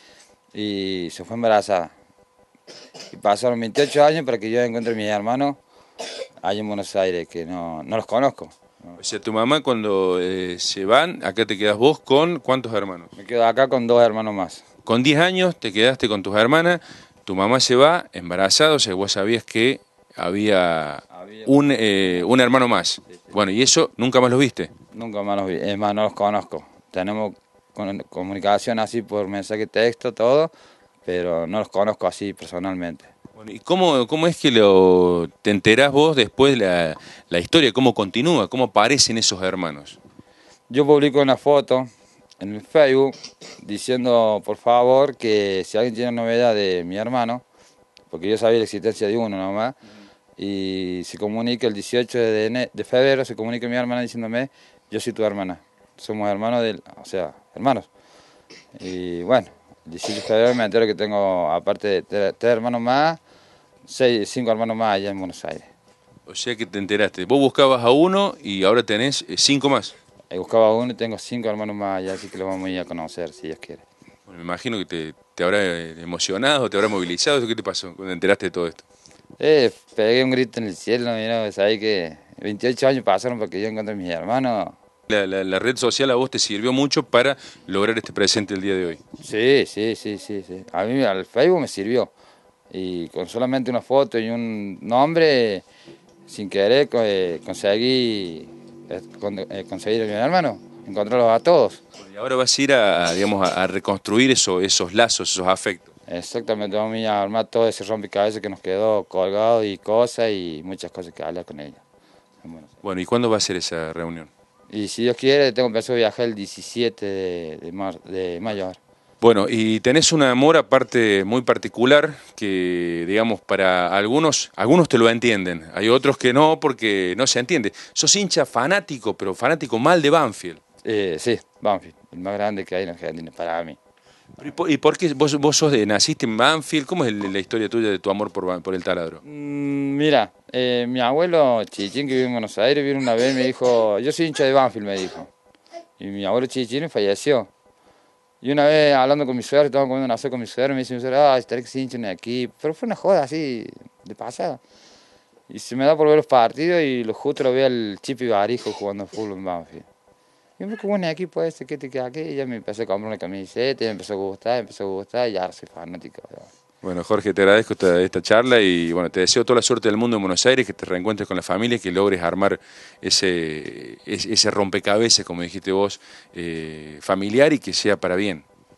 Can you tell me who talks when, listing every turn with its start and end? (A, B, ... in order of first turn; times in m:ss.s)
0:00.5-0:01.9 A
0:03.1-0:05.6 A
0:06.4-0:08.6 A
0:09.0-0:13.1 B
0:13.2-0:14.6 A
0:14.8-0:24.7 B
0:24.9-0:30.5 A
0:31.0-0:33.1 A
0:33.4-0:40.0 B
0:40.7-0:41.9 A
0:42.4-0:47.4 A
0:48.1-0:49.8 A
0:50.4-0:57.9 A
0:58.7-1:03.2 A
1:03.8-1:05.7 A
1:06.3-1:09.9 B
1:10.3-1:13.8 A
1:14.3-1:18.8 B
1:19.4-1:24.8 A
1:25.1-1:29.0 B
1:29.2-1:32.1 A
1:32.7-1:35.6 A
1:36.3-1:41.8 A
1:42.0-1:45.9 B
1:46.1-1:51.8 A
1:52.4-1:52.8 A
1:52.8-1:54.3 B
1:54.7-1:58.8 A
1:59.2-2:10.6 B
2:10.8-2:13.8 A
2:14.4-2:19.2 B
2:19.2-2:25.3 A
2:26.0-2:27.5 A
2:28.4-2:34.6 A
2:35.5-2:39.9 A
2:40.6-2:46.5 A
2:46.8-2:58.4 B